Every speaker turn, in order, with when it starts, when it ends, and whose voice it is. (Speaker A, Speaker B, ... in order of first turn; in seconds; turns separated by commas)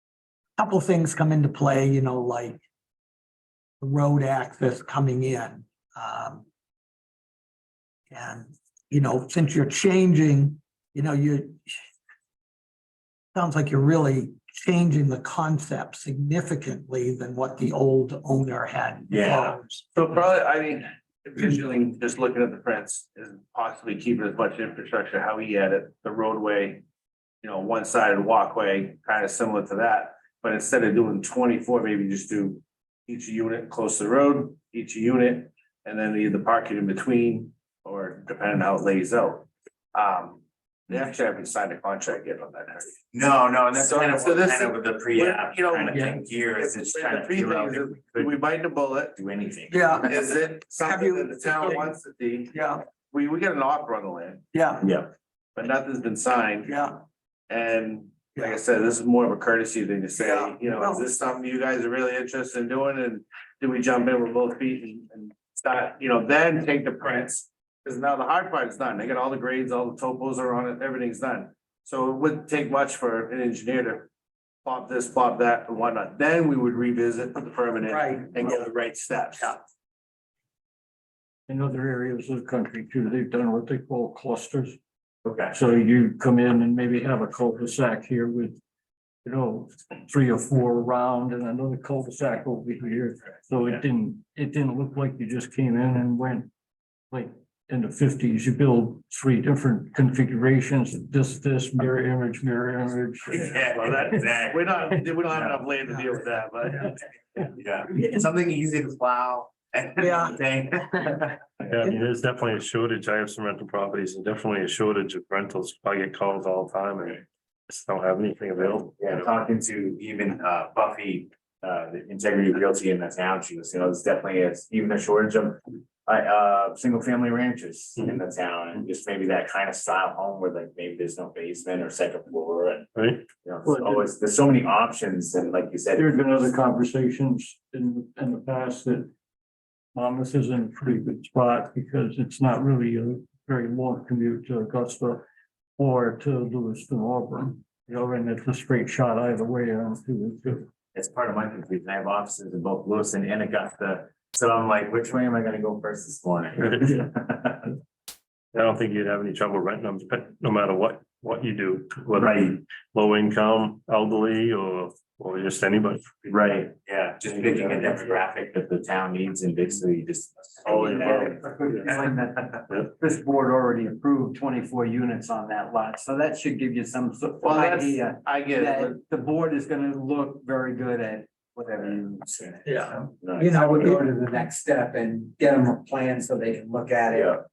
Speaker A: 0.6-2.6, Speaker A: 3.8-6.4, Speaker A: 8.1-11.8, Speaker A: 13.3-19.9, Speaker B: 19.1-19.6, Speaker C: 19.9-26.8, Speaker C: 27.4-42.9, Speaker B: 43.1-48.3, Speaker C: 43.8-46.0, Speaker C: 46.6-49.1, Speaker B: 49.1-50.0, Speaker A: 49.7-50.2, Speaker C: 50.1-52.5, Speaker A: 50.8-51.9, Speaker A: 52.5-52.8, Speaker C: 53.1-54.4, Speaker A: 54.5-54.9, Speaker B: 54.8-55.1, Speaker C: 55.6-56.7, Speaker A: 56.6-56.9, Speaker C: 57.5-74.1, Speaker A: 60.2-61.0, Speaker C: 74.7-79.6, Speaker A: 77.9-78.7, Speaker D: 81.5-84.8, Speaker B: 85.2-85.5, Speaker D: 85.5-88.6, Speaker D: 89.2-96.5, Speaker D: 97.1-104.1, Speaker B: 103.3-105.6, Speaker C: 103.8-106.9, Speaker B: 107.5-111.7, Speaker A: 110.0-110.4, Speaker E: 111.7-119.0, Speaker B: 119.0-132.9, Speaker E: 132.9-133.3, Speaker B: 133.4-136.1, Speaker D: 133.7-134.1, Speaker D: 135.9-139.1, Speaker D: 139.9-145.2, Speaker D: 145.8-150.7, Speaker B: 150.9-157.7, Speaker E: 156.6-157.0, Speaker E: 158.5-166.3, Speaker B: 162.2-162.6, Speaker B: 166.3-171.4, Speaker E: 170.7-171.9, Speaker F: 171.0-187.3, Speaker C: 177.4-179.0, Speaker A: 182.7-184.0, Speaker B: 183.2-183.9, Speaker B: 187.1-187.4